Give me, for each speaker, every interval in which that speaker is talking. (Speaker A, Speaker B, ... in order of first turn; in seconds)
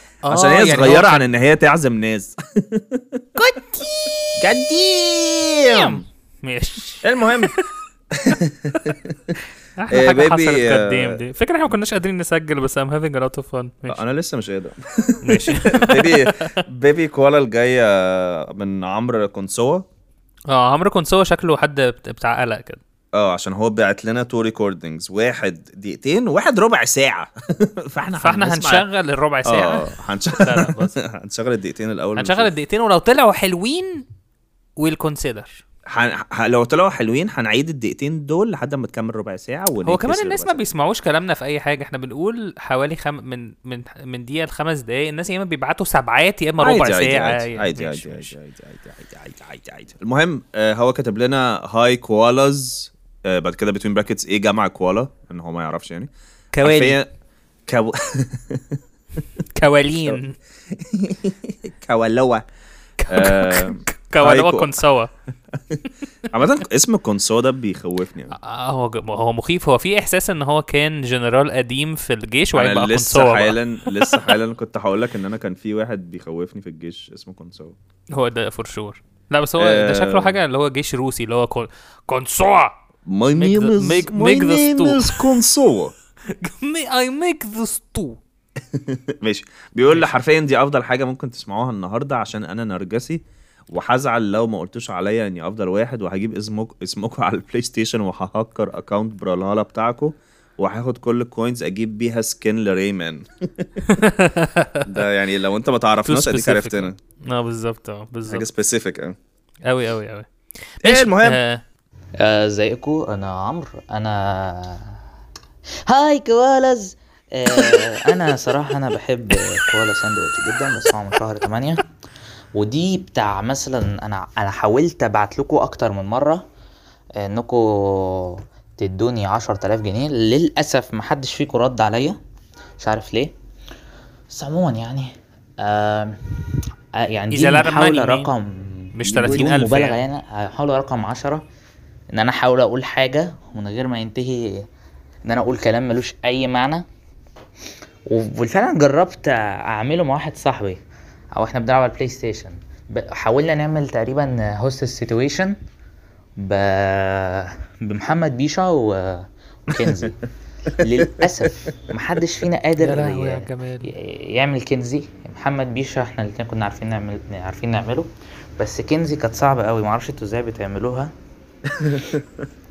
Speaker A: 0.2-1.2, 5.7-7.0, 9.8-14.0, 15.3-16.3, 20.5-22.8, 28.2-30.9, 32.2-34.0, 34.8-35.6, 39.9-48.3, 56.5-57.0, 59.6-60.4, 63.0-65.1, 68.3-74.2, 78.1-82.8, 83.3-85.2, 86.4-88.2, 89.9-90.1, 103.9-104.8, 106.1-108.5, 109.7-111.6, 137.3-138.3, 139.0-140.0, 162.8-163.9
Speaker B: 0.3-3.2, 4.4-6.0, 7.0-7.5, 8.2-9.2, 9.9-11.2, 13.9-19.9, 23.1-28.9, 29.4-32.5, 35.9-40.6, 46.6-56.1, 56.6-57.1, 57.7-58.8, 60.8-62.4, 63.1-64.8, 66.3-68.3, 72.5-77.8, 79.6-80.4, 83.1-85.9, 88.7-103.7, 104.9-107.0, 108.3-109.2, 110.8-111.4, 159.8-160.1, 161.0-161.2, 171.8-172.4
Speaker C: 112.2-115.0, 115.9-121.8, 122.6-126.4, 127.2-132.2, 132.8-133.3, 134.3-136.4, 137.0-141.4, 142.1-144.6, 145.3-146.8, 148.1-150.8, 151.4-155.6, 156.4-160.2, 160.8-171.1